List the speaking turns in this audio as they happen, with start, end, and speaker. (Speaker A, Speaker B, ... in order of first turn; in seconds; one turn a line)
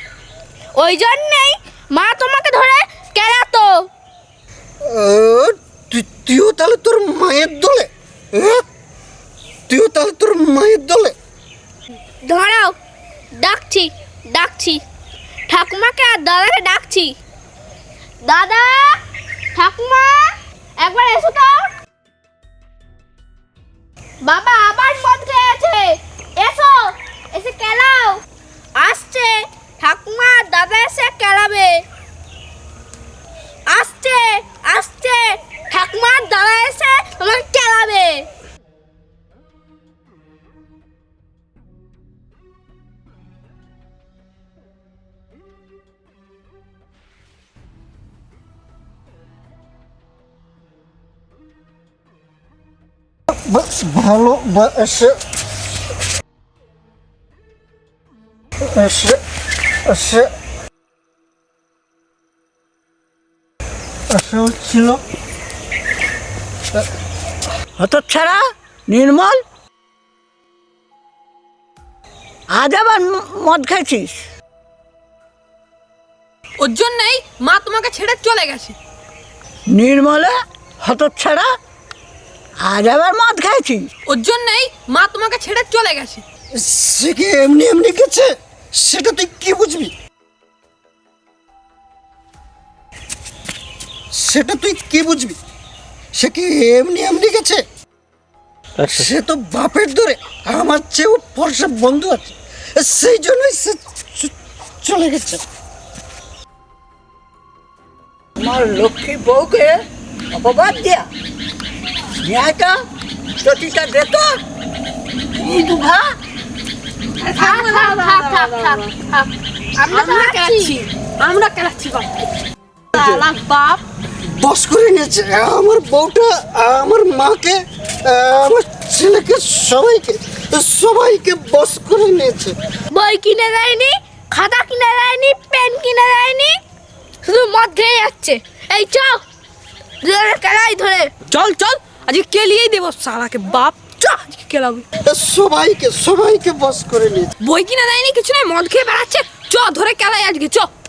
Speaker A: 0.8-3.9
Speaker B: 4.8-8.7
Speaker B: 9.7-11.2
Speaker A: 12.2-12.8
Speaker A: 13.3-14.8
Speaker A: 15.5-17.2
Speaker A: 18.2-19.0
Speaker A: 19.5-21.7
Speaker A: 24.2-28.2
Speaker A: 28.8-31.9
Speaker A: 33.7-38.3
Speaker B: 53.3-55.2
Speaker B: 58.6-59.2
Speaker B: 59.8-60.3
Speaker B: 64.1-65.0
Speaker C: 67.8-69.4
Speaker C: 72.5-74.2
Speaker D: 76.6-78.8
Speaker C: 79.7-81.5
Speaker C: 82.6-83.9
Speaker D: 84.1-86.2
Speaker B: 86.5-89.9
Speaker B: 94.1-95.4
Speaker B: 96.1-97.6
Speaker B: 98.8-105.4
Speaker C: 108.4-109.8
Speaker C: 110.3-111.1
Speaker C: 112.2-112.8
Speaker C: 113.4-114.4
Speaker C: 115.3-116.0
Speaker D: 117.2-118.9
Speaker A: 117.4-120.7
Speaker D: 119.9-122.3
Speaker D: 122.9-123.8
Speaker B: 123.0-123.3
Speaker B: 124.2-132.6
Speaker A: 132.9-136.6
Speaker A: 137.2-139.2
Speaker A: 140.0-141.1
Speaker D: 141.3-144.9
Speaker B: 145.1-147.3
Speaker D: 147.4-150.7